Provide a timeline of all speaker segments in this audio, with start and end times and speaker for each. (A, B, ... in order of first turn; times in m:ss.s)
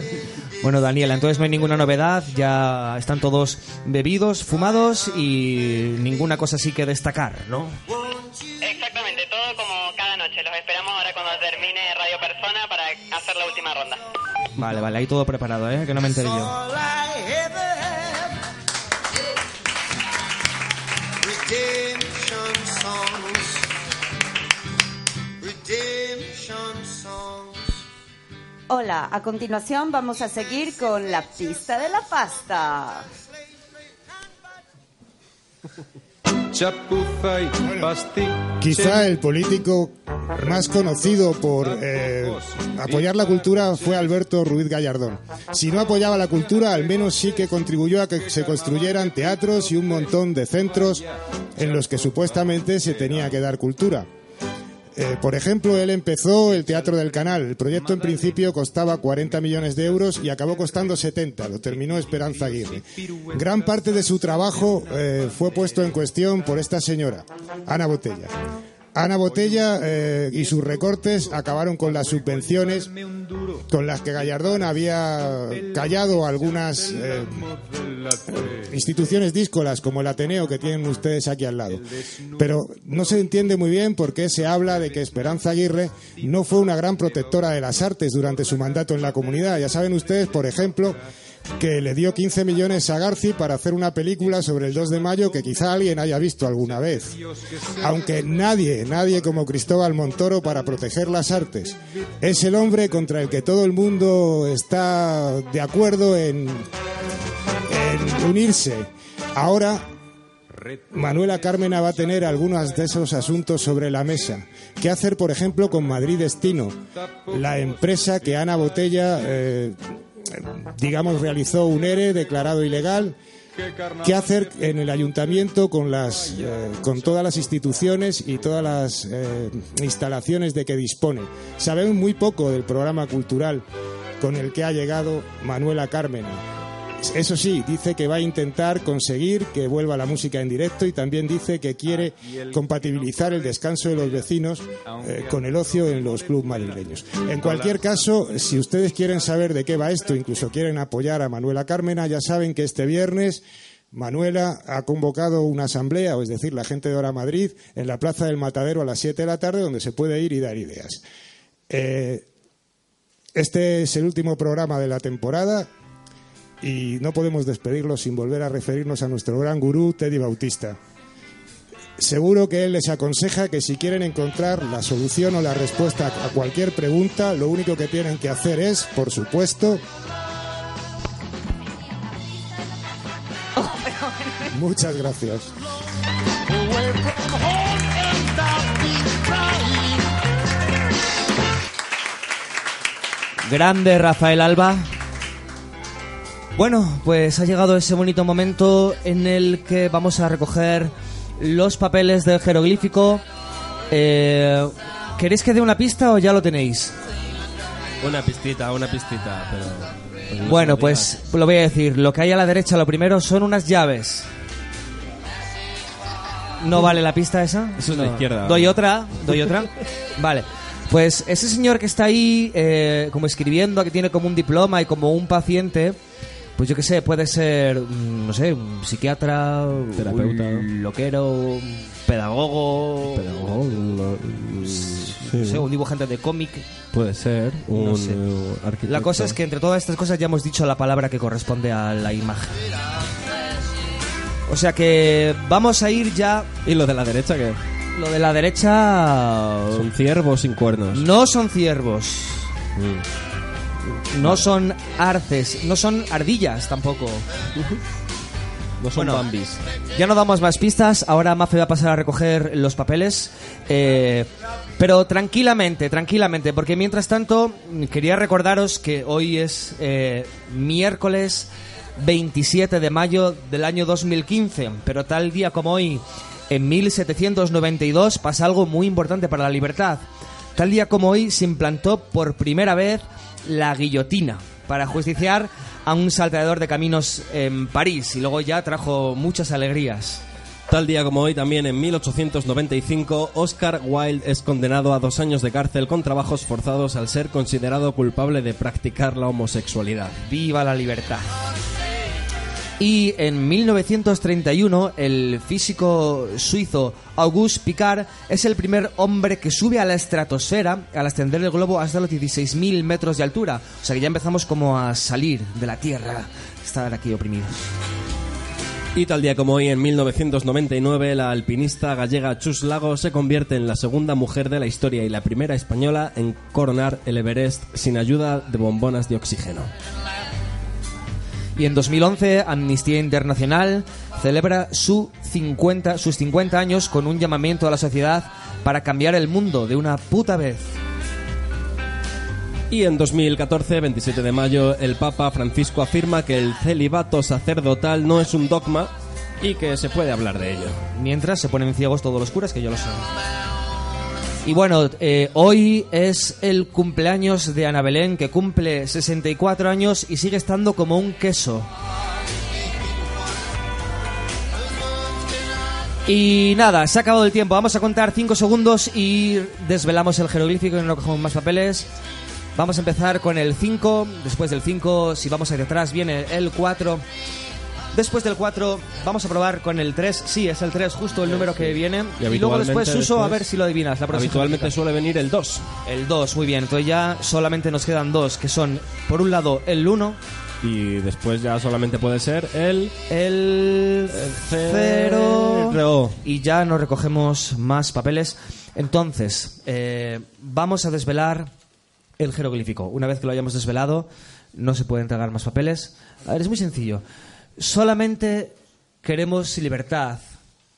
0:00.6-0:07.8 A
0:08.6-0:14.0 B
0:14.6-0:16.6 A
0:28.7-0:33.1 C
0:37.6-0:37.9 D
0:38.6-0:54.1 D
0:54.9-1:08.4 D
1:08.9-1:12.9 D
1:13.6-1:17.5 D
1:18.2-1:31.0 D
1:31.6-1:37.2 D
1:37.8-1:46.7 D
1:47.7-1:49.9 D
1:50.9-1:56.8 D
1:57.3-2:03.2 D
2:04.0-2:13.6 D
2:14.2-2:16.4 D
2:17.0-2:41.0 D
2:41.7-2:42.3 D
2:43.4-2:45.7 D
2:46.6-2:50.8 D
2:52.0-2:59.8 D
3:03.6-3:04.3 C
3:04.5-3:05.5 D
3:13.4-3:14.9 A
3:16.6-3:23.2 A
3:23.9-3:27.0 A
3:28.0-3:31.2 E
3:30.4-3:34.3 A
3:36.6-3:46.0 A
3:37.8-3:38.8 E
3:46.6-3:53.3 A
3:49.9-3:50.7 E
3:53.0-3:55.6 E
3:54.9-3:56.7 A
3:56.9-3:59.4 E
3:57.7-3:58.2 A
3:58.9-4:02.6 A
4:04.5-4:06.6 A
4:06.6-4:07.6 E
4:07.9-4:09.9 A
4:09.7-4:11.0 E
4:10.9-4:12.5 A
4:12.8-4:13.0 E
4:14.1-4:17.2 A
4:14.2-4:14.5 E
4:18.8-4:19.6 E
4:19.0-4:19.2 A
4:19.9-4:40.0 A
4:40.6-4:50.2 A
4:50.7-5:00.2 E
5:00.2-5:01.3 A
5:02.8-5:17.6 A
5:18.9-5:29.7 E
5:31.6-5:40.7 A
5:42.7-5:50.9 E
5:50.9-5:53.1 A
5:54.4-6:01.7 A
6:06.0-6:11.9 A
6:12.6-6:17.0 A
6:17.9-6:24.7 A
6:21.2-6:23.4 E
6:24.1-6:25.8 E
6:25.8-6:30.2 A
6:30.6-6:33.0 E
6:33.1-6:41.5 A
6:34.1-6:36.2 E
6:42.2-6:47.0 A
6:47.6-6:50.3 A